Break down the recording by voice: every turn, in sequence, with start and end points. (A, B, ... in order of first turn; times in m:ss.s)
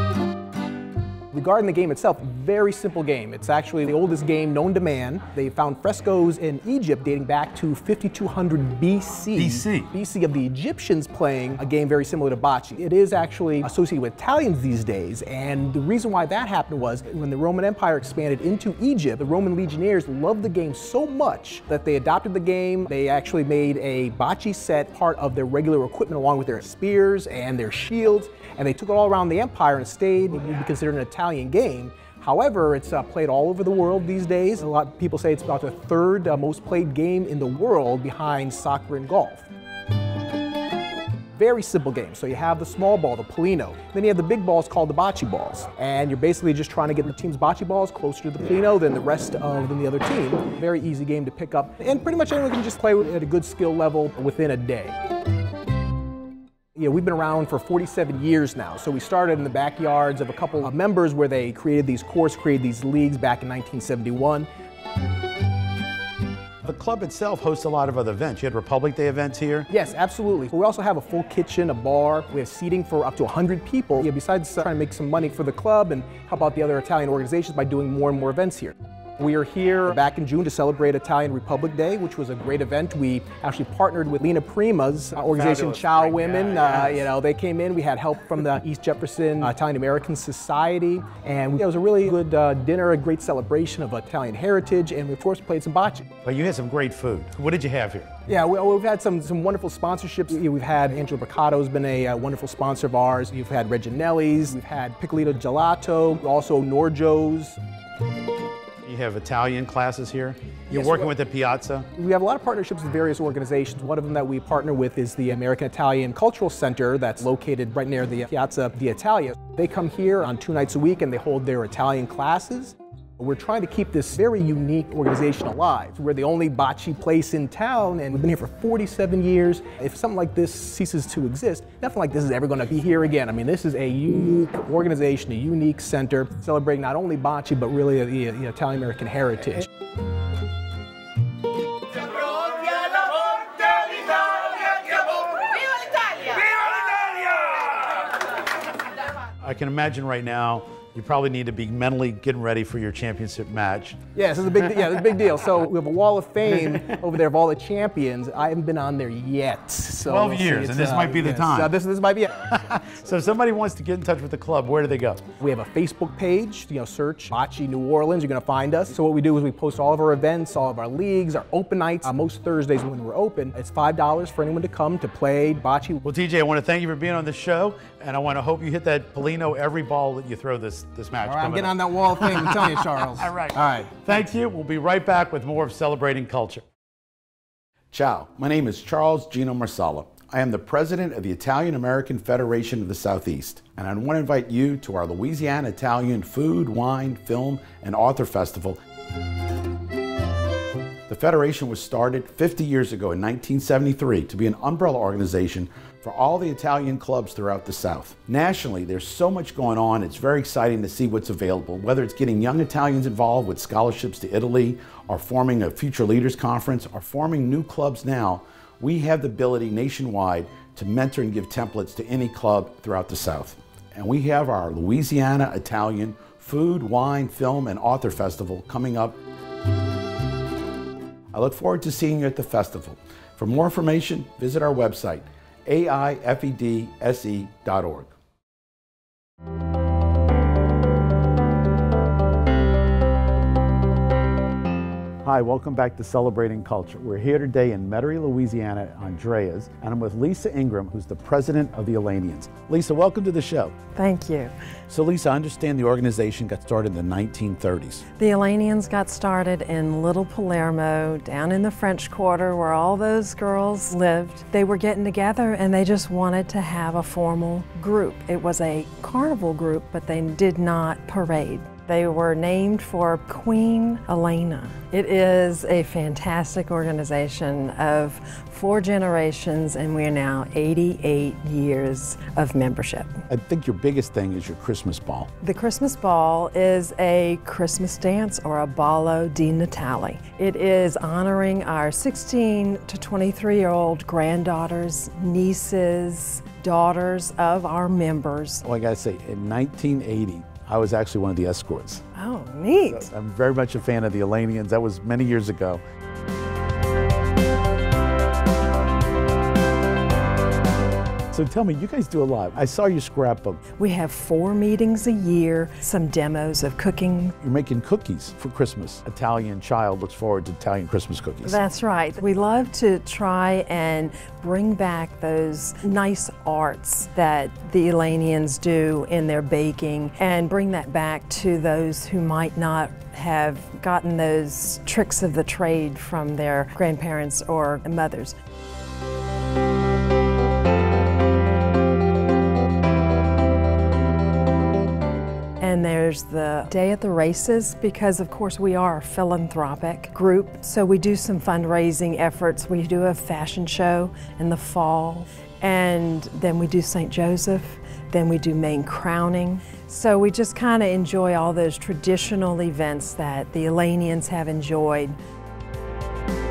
0:01.3-0:39.5 A
0:09.3-0:09.9 B
0:41.4-0:55.0 A
0:56.7-1:04.5 A
1:06.6-1:09.7 B
1:09.7-1:36.0 A
1:25.3-1:27.1 B
1:36.2-1:38.1 B
1:38.3-1:47.6 A
1:48.8-1:51.9 B
1:50.7-1:51.1 A
1:52.0-2:19.7 A
2:29.4-2:34.0 B
2:34.1-2:42.4 A
2:36.5-2:37.0 B
2:40.0-2:41.7 B
2:42.5-2:45.2 B
2:45.4-2:56.0 A
2:56.0-3:06.6 B
3:01.2-3:03.3 A
3:07.9-3:18.8 B
3:21.1-3:49.2 B
3:51.3-3:58.1 B
4:05.2-4:13.7 B
4:14.0-4:14.5 C
4:14.9-4:18.0 B
4:18.2-4:43.2 C
4:43.3-4:45.3 B
4:45.4-4:58.6 C
4:58.6-5:02.0 B
5:02.1-5:03.1 C
5:02.9-5:05.8 B
5:11.3-5:13.6 B
5:13.8-5:17.4 C
5:17.4-5:21.6 B
5:21.4-5:38.4 C
5:45.6-6:05.2 C